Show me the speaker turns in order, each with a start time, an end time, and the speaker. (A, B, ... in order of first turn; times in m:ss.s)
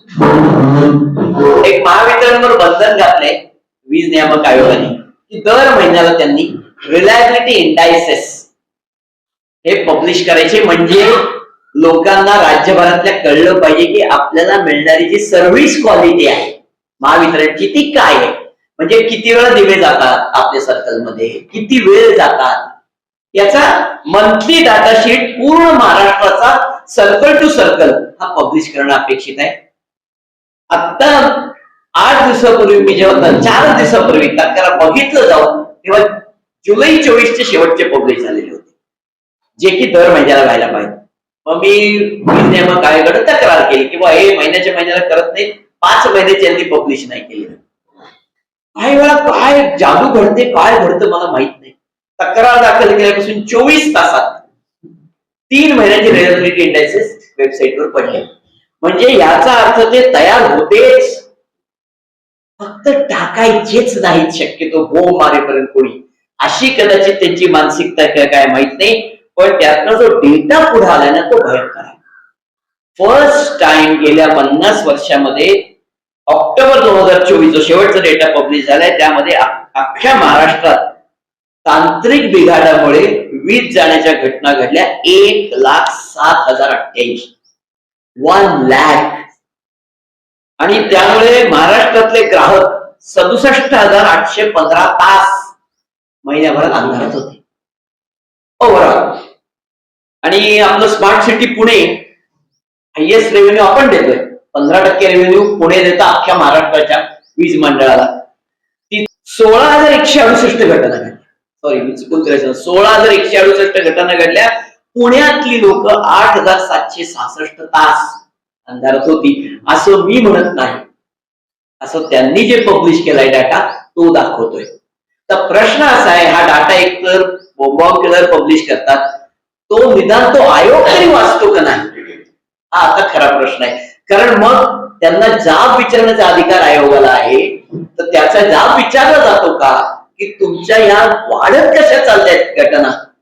0:00.2-0:00.7 A
0:01.6-0:08.5 A
0:09.6-0:22.7 A
0:23.3-0:29.6 A
0:30.7-0:38.7 A
0:39.6-0:47.6 A
0:48.8-0:54.5 A
0:55.5-0:58.3 A
0:58.8-1:01.2 A
1:02.6-1:12.0 A
1:13.0-1:15.7 A
1:16.3-1:20.9 A
1:21.6-1:27.3 A
1:28.2-1:29.3 A
1:30.6-1:35.5 A
1:36.2-1:37.4 A
1:38.6-1:39.2 A
1:40.2-1:42.1 A
1:43.0-1:48.1 A
1:48.9-2:00.8 A
2:01.8-2:04.7 A
2:05.3-2:09.1 A
2:09.7-2:12.2 A
2:12.7-2:23.0 A